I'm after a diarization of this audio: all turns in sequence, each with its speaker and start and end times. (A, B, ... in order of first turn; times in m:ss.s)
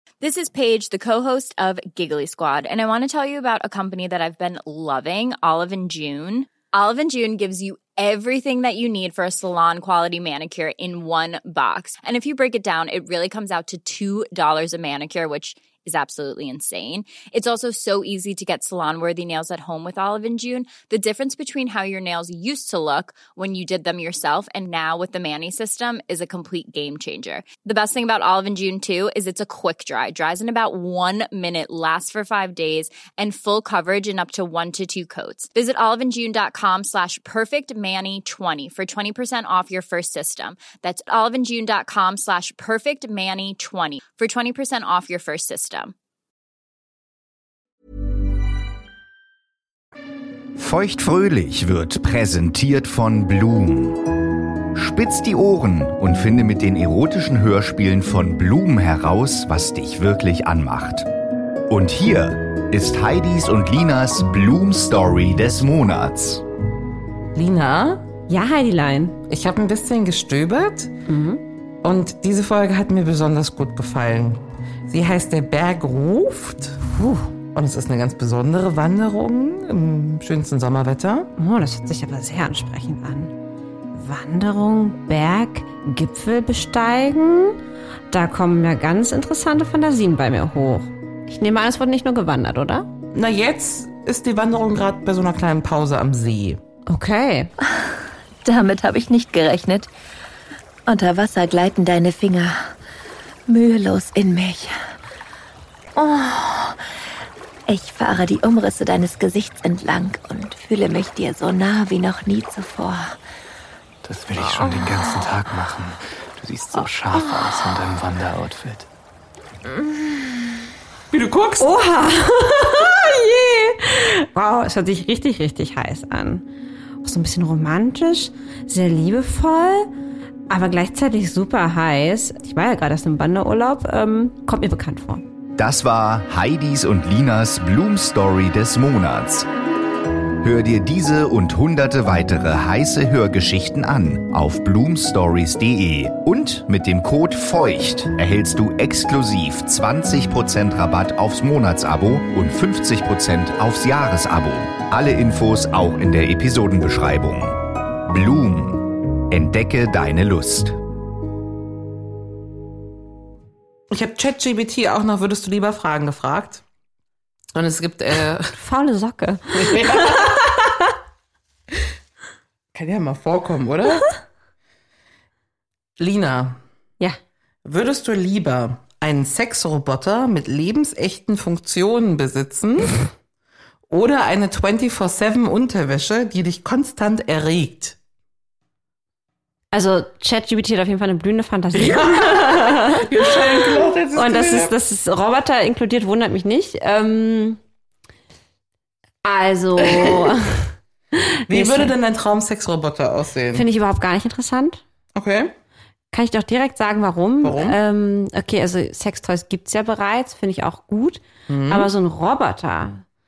0:00.2-0:45.9 A
0:50.6-0:54.1 B
0:54.7-1:01.1 B
1:01.7-1:06.4 B
1:07.3-1:08.0 C
1:08.3-1:09.2 D
1:09.3-1:10.9 C
1:11.1-1:11.4 D
1:11.8-1:16.8 C
1:16.8-1:17.3 D
1:17.5-1:21.3 C
1:21.4-1:23.3 D
1:23.9-1:27.6 D
1:28.1-1:32.9 D
1:33.1-1:36.6 C
1:36.9-1:37.5 D
1:38.4-1:39.9 E
1:40.9-1:42.7 E
1:43.5-1:44.8 E
1:46.0-1:46.8 E
1:47.7-1:53.2 E
1:54.0-1:58.9 F
2:01.1-2:01.7 C
2:01.6-2:06.4 D
2:07.0-2:09.9 D
2:10.5-2:15.2 D
2:15.6-2:19.5 B
2:20.4-2:40.8 B
2:43.9-2:46.6 C
2:47.5-2:48.5 C
2:48.5-2:50.9 D
2:49.5-2:50.4 C
2:52.7-2:54.1 C
2:56.0-2:56.6 C
2:57.6-3:02.9 C
3:03.9-3:08.0 C
3:09.7-3:17.6 D
3:11.7-3:14.7 C
3:19.2-3:21.9 D
3:19.8-3:20.3 C
3:21.5-3:23.6 C
3:23.5-3:24.8 D
3:25.1-3:25.5 C
3:26.1-3:33.0 D
3:27.4-3:27.8 C
3:31.5-3:31.9 C